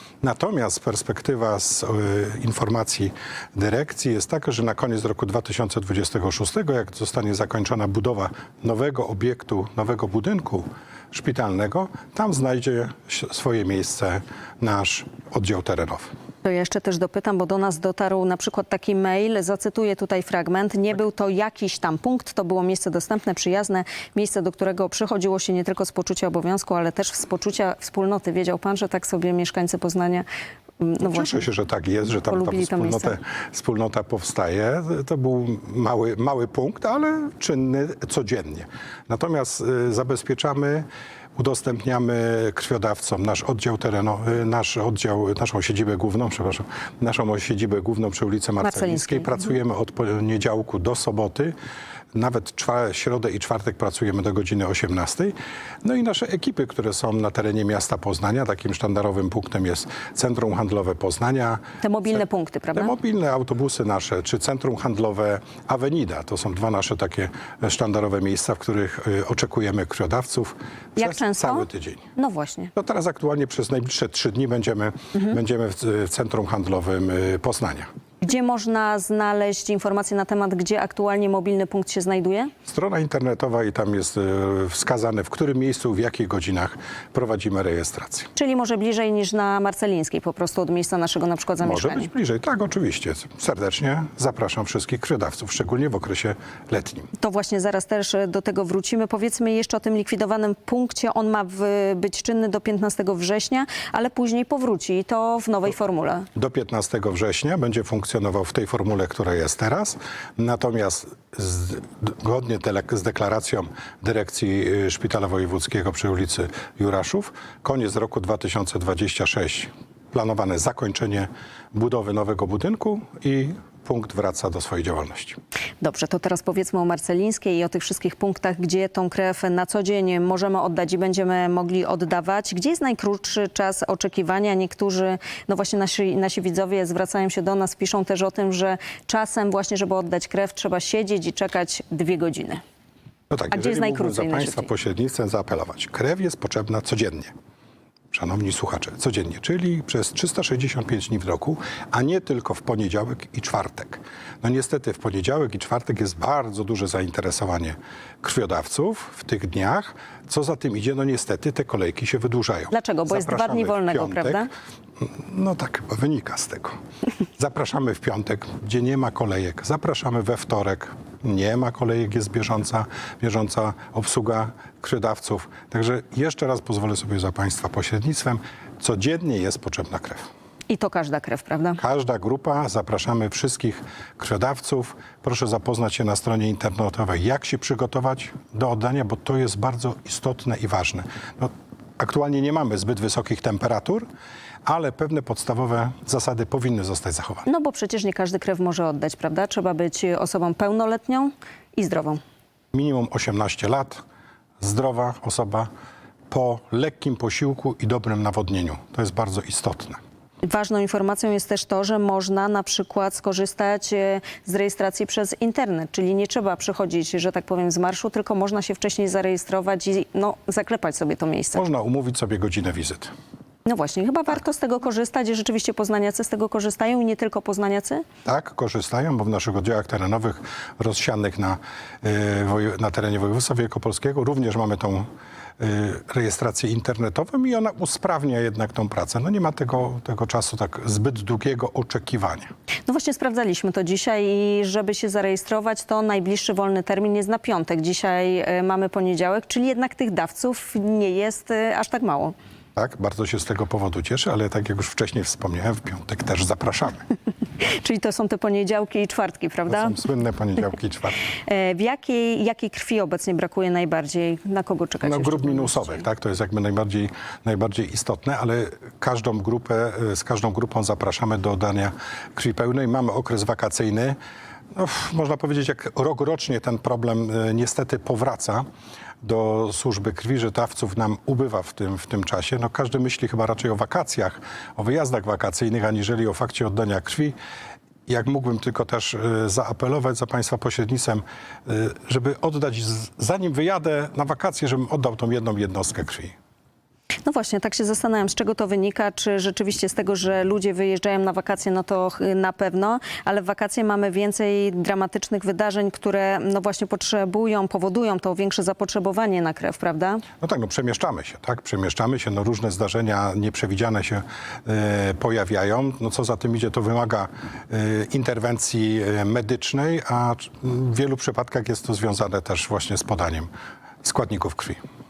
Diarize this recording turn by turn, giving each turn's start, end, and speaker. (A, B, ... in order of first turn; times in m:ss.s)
0:00.2-0:16.1 A
0:16.4-0:30.2 B
0:30.8-0:31.4 B
0:31.0-0:51.5 A
0:32.3-0:33.2 B
0:48.6-0:49.5 B
0:52.1-1:02.2 A
1:01.8-1:02.9 B
1:02.7-1:12.0 A
1:11.0-1:12.7 B
1:12.8-1:17.9 A
1:18.2-1:22.5 B
1:22.7-1:28.3 A
1:28.4-1:32.1 B
1:31.6-1:37.1 A
1:37.2-1:46.3 B
1:46.3-2:05.4 A
2:05.8-2:22.6 B
2:23.3-2:27.3 A
2:23.5-2:24.7 B
2:28.1-2:44.4 A
2:42.7-2:44.5 B
2:45.0-2:46.7 A
2:47.4-3:00.3 A
3:00.7-3:01.8 B
3:01.8-3:14.0 A
3:14.6-3:17.4 A
3:17.4-3:22.2 B
3:22.7-3:24.0 A
3:24.6-3:25.7 A
3:26.3-3:30.0 A
3:30.4-3:41.6 B
3:41.5-3:43.1 A
3:43.6-3:48.0 B
3:48.2-3:55.1 A
3:55.6-4:02.5 A
4:02.9-4:12.3 B
4:12.8-4:17.0 A
4:17.6-4:20.0 B
4:19.7-4:21.2 A
4:21.4-4:26.0 B
4:25.0-4:34.2 A
4:34.7-4:38.6 A
4:39.2-4:47.4 A
4:48.1-4:56.3 A
4:57.2-5:10.2 B
5:10.4-5:23.5 A
5:24.0-5:24.8 A